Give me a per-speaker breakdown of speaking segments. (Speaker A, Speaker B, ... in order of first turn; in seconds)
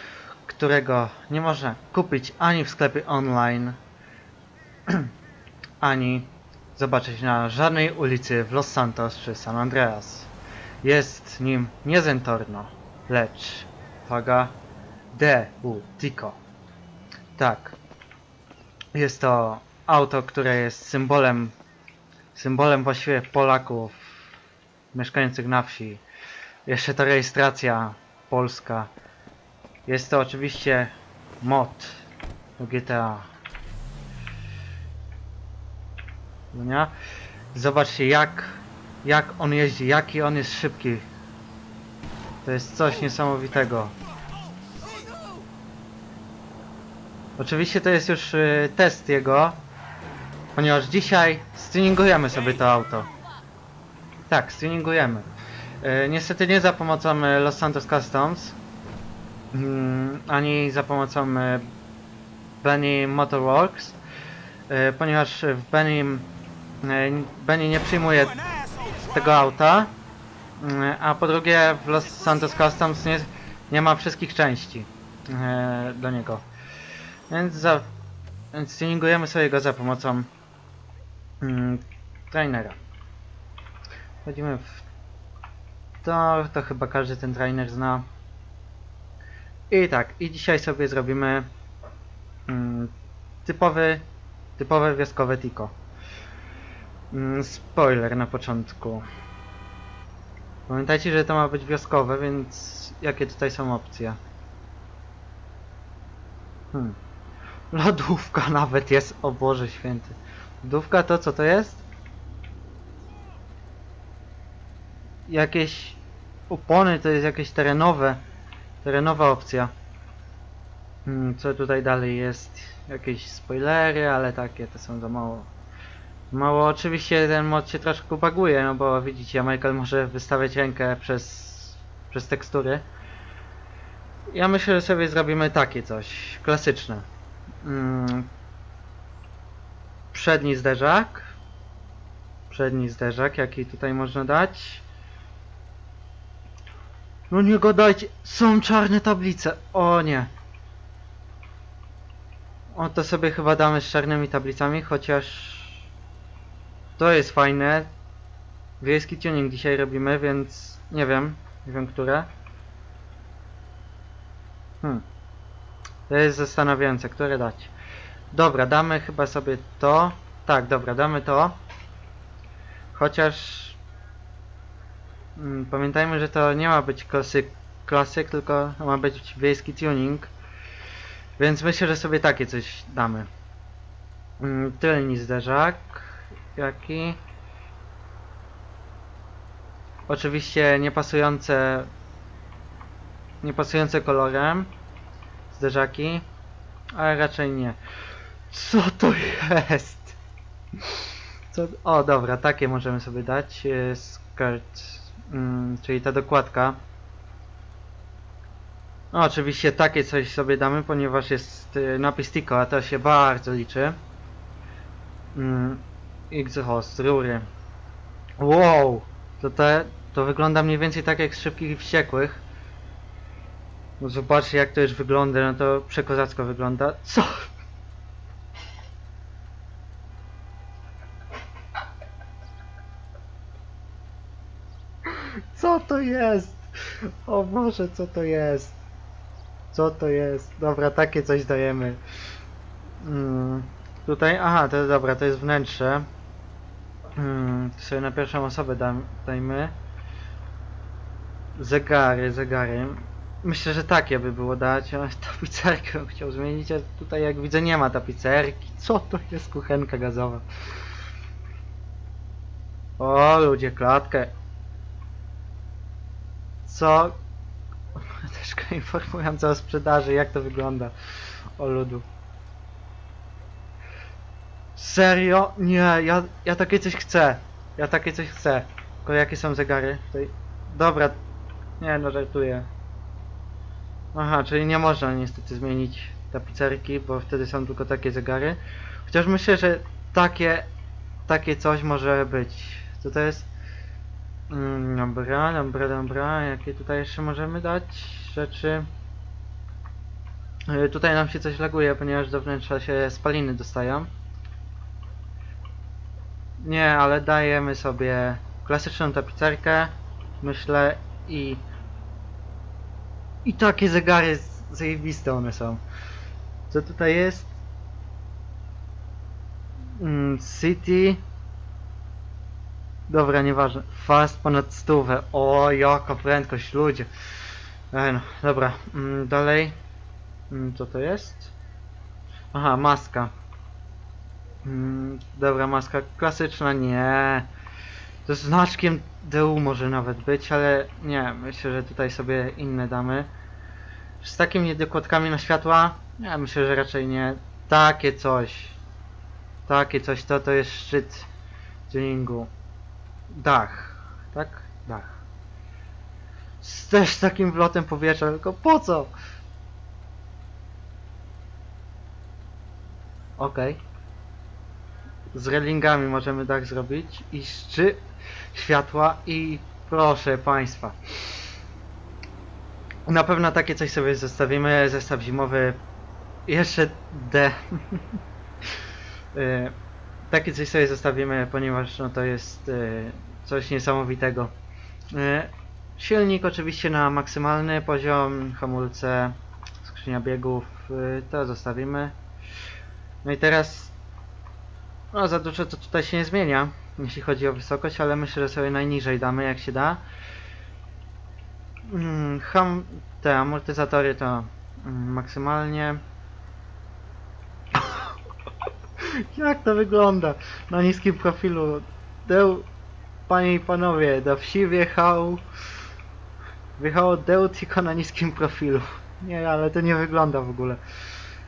Speaker A: 0.5-3.8, 5.8-10.3, 10.8-14.6, 15.1-16.4, 17.4-17.8, 18.9-21.5, 22.3-24.0, 24.9-26.0, 26.7-28.9, 29.9-32.0, 32.6-33.3, 36.5-36.9, 37.5-41.1, 42.5-43.9, 47.4-49.6, 50.6-53.1, 54.3-55.3, 55.8-58.6, 59.5-61.7, 62.6-64.0, 64.7-66.3, 66.8-68.4, 69.1-69.9, 70.6-76.4, 77.3-77.9, 78.5-80.3, 81.4-82.8, 84.2-84.8, 86.0-88.0, 89.7-91.5, 92.5-92.9, 93.5-94.0, 94.6-95.7, 97.1-99.0, 100.7-104.2, 107.7-111.8, 115.3-118.2, 118.8-119.7, 121.0-125.5, 126.3-132.8, 134.3-137.1, 137.6-138.3, 140.1-141.3, 142.5-144.8, 147.3-150.3, 152.7-155.9, 157.0-157.9, 158.8-162.3, 166.1-167.7, 168.3-171.6, 172.9-173.8, 175.4-180.3, 181.4-183.3, 184.4-187.2, 190.1-191.9, 193.4-194.7, 195.5-196.2, 196.9-197.8, 198.5-200.2, 200.8-206.8, 209.1-214.0, 215.3-217.5, 218.4-222.4, 224.0-227.5, 235.1-238.8, 239.7-242.0, 243.0-246.1, 247.2-249.7, 251.6-260.4, 263.0-264.3, 266.6-267.2, 268.0-270.9, 271.6-272.1, 274.8-281.2, 281.8-282.7, 284.1-290.7, 291.3-293.5, 294.5-298.9, 300.7-304.1, 306.6-311.6, 313.4-315.8, 316.7-317.5, 320.0-321.2, 323.1-327.1, 327.9-329.8, 330.5-331.5, 332.5-333.3, 334.6-337.5, 338.3-343.3, 344.2-348.8, 349.7-351.3, 351.9-352.5, 353.3-355.2, 356.6-359.1, 363.4-363.8, 365.3-368.0, 368.5-371.0, 373.1-375.8, 376.5-378.2, 379.3-379.8, 380.3-384.5, 385.1-392.1, 393.2-393.9, 395.1-400.0, 401.9-406.0, 407.8-408.1, 409.0-412.7, 413.3-415.4, 416.8-420.8